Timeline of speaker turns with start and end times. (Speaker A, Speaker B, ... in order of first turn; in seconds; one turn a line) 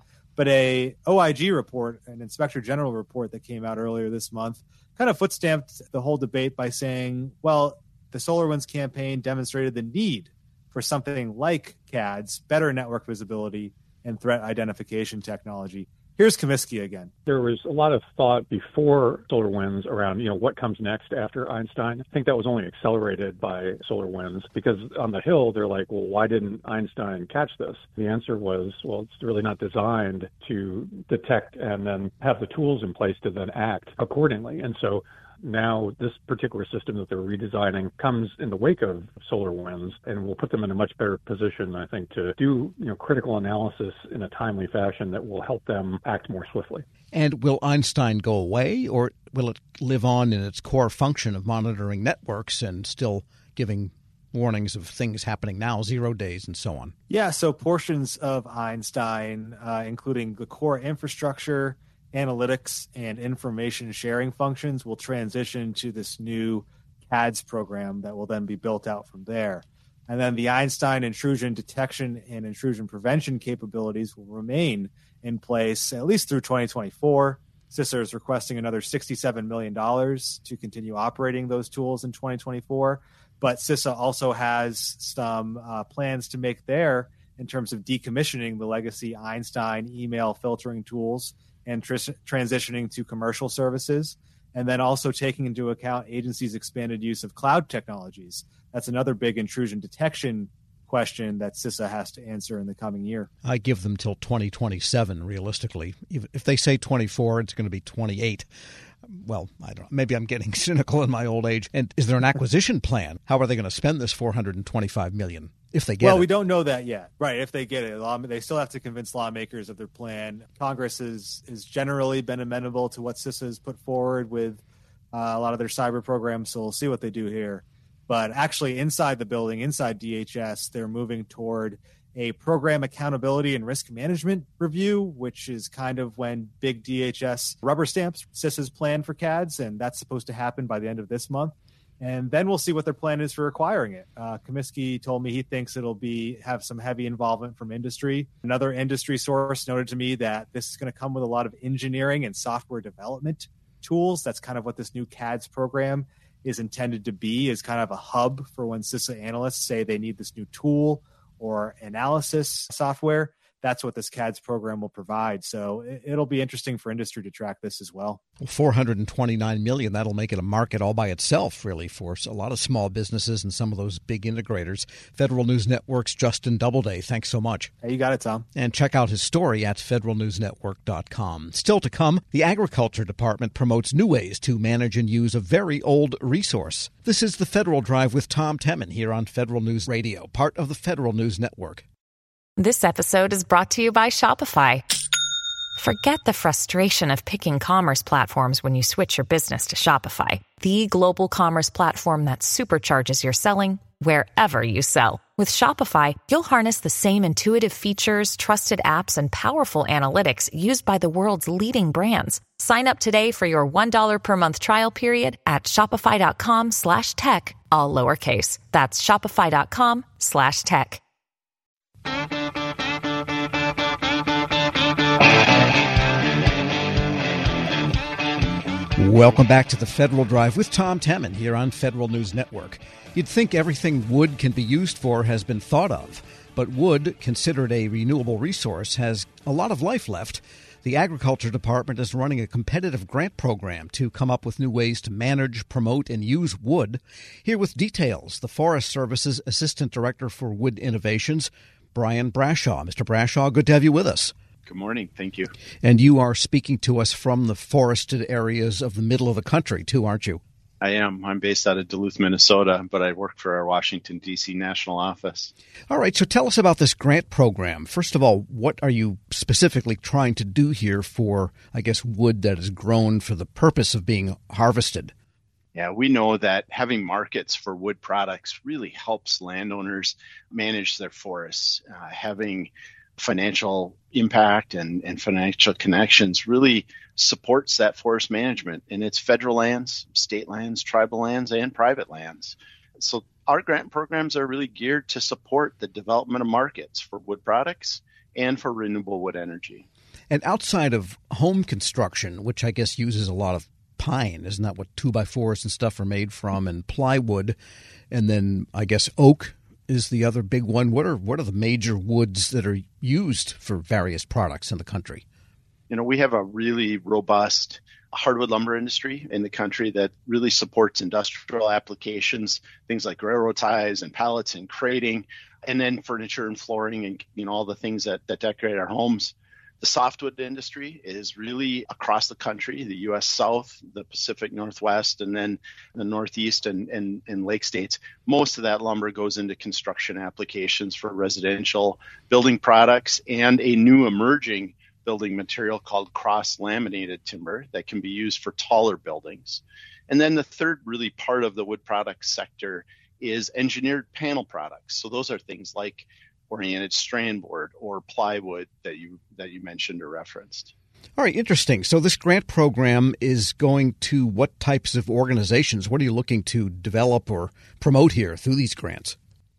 Speaker A: 0.4-17.1
Speaker B: 17.3-46.9
Speaker C: 47.1-57.0
Speaker A: 57.1-103.3
Speaker C: 103.4-108.5
Speaker C: 109.0-116.3
Speaker A: 116.0-124.6
Speaker A: 125.1-168.2
Speaker C: 168.4-177.7
Speaker A: 177.8-178.5
Speaker C: 178.6-191.8
Speaker D: 192.6-194.9
Speaker D: 195.8-221.0
Speaker C: 228.9-254.3
Speaker E: 254.7-255.5
Speaker C: 255.8-260.4
Speaker E: 260.8-265.5
Speaker C: 265.9-275.1
Speaker E: 275.8-299.9
Speaker C: 300.3-307.6
Speaker C: 308.1-315.2
Speaker E: 315.9-360.7
Speaker C: 361.2-369.2